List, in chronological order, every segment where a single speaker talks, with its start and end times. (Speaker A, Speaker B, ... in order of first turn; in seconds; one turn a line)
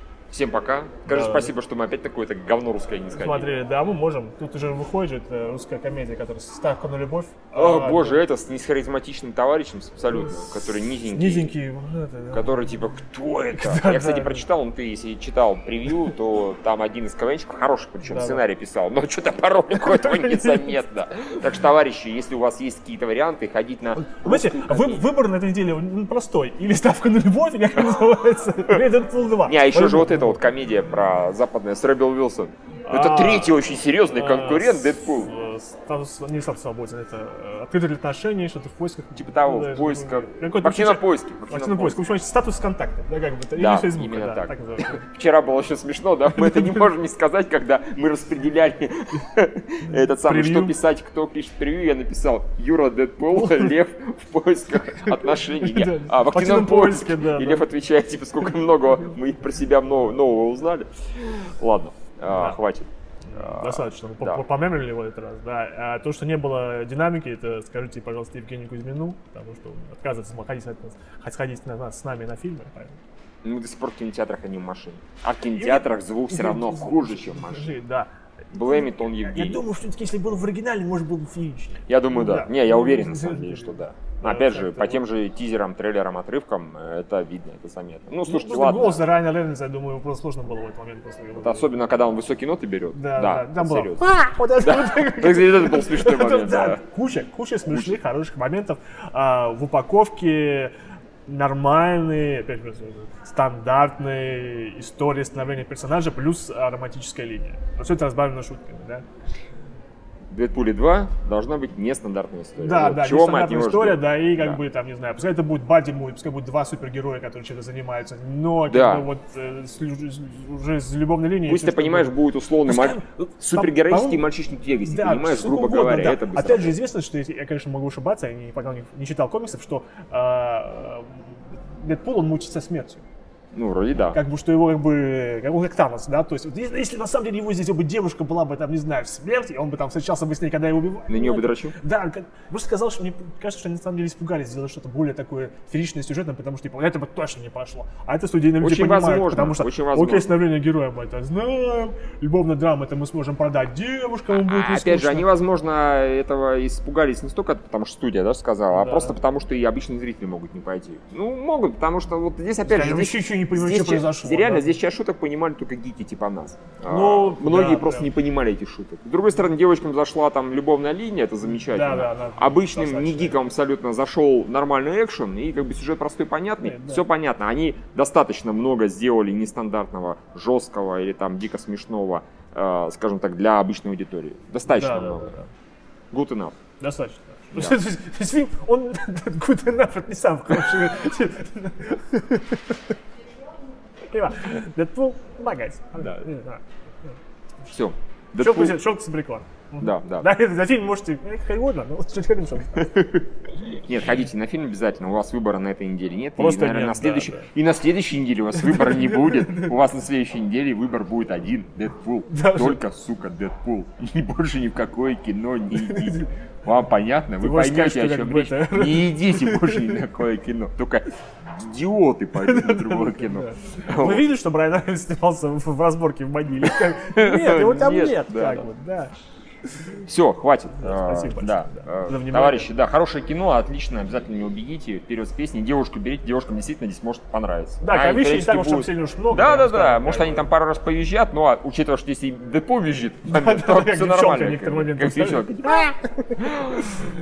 Speaker A: 0.3-3.6
Speaker B: 1.1-1.5
Speaker B: 3.1-8.2
Speaker A: 7.5-11.5
Speaker B: 10.1-12.8
Speaker A: 12.3-25.1
Speaker B: 13.5-14.4
Speaker B: 18.0-18.4
Speaker B: 19.7-20.8
Speaker B: 24.0-30.4
Speaker A: 29.4-35.3
Speaker B: 32.9-45.0
Speaker A: 39.1-42.0
Speaker A: 43.5-64.4
Speaker B: 46.4-46.8
Speaker B: 50.2-50.8
Speaker B: 53.3-53.7
Speaker B: 55.0-57.6
Speaker B: 62.3-62.6
Speaker B: 63.3-73.0
Speaker A: 73.4-77.8
Speaker B: 75.5-85.0
Speaker A: 78.5-79.6
Speaker A: 81.9-89.0
Speaker B: 88.2-91.7
Speaker A: 91.4-94.1
Speaker B: 92.9-100.7
Speaker A: 94.6-96.8
Speaker A: 97.7-98.0
Speaker B: 101.3-109.0
Speaker A: 110.3-114.6
Speaker B: 112.6-124.2
Speaker A: 118.7-119.1
Speaker A: 121.4-126.8
Speaker B: 124.8-133.0
Speaker A: 133.5-134.2
Speaker B: 134.1-155.3
Speaker A: 141.1-141.8
Speaker A: 148.6-150.4
Speaker A: 154.3-185.4
Speaker B: 158.7-159.2
Speaker B: 162.7-164.8
Speaker B: 166.9-168.1
Speaker B: 171.4-173.4
Speaker B: 176.6-177.0
Speaker B: 184.7-185.5
Speaker A: 186.1-186.5
Speaker B: 186.8-192.9
Speaker A: 187.5-187.8
Speaker B: 194.1-197.1
Speaker A: 197.7-198.8
Speaker B: 198.4-203.2
Speaker A: 199.8-200.3
Speaker A: 202.8-224.3
Speaker B: 206.4-207.5
Speaker B: 208.6-209.7
Speaker B: 212.3-212.8
Speaker B: 215.8-216.3
Speaker B: 217.4-220.0
Speaker B: 222.3-229.1
Speaker A: 226.6-228.7
Speaker A: 230.0-247.0
Speaker B: 230.8-232.7
Speaker B: 237.8-240.5
Speaker B: 243.3-247.1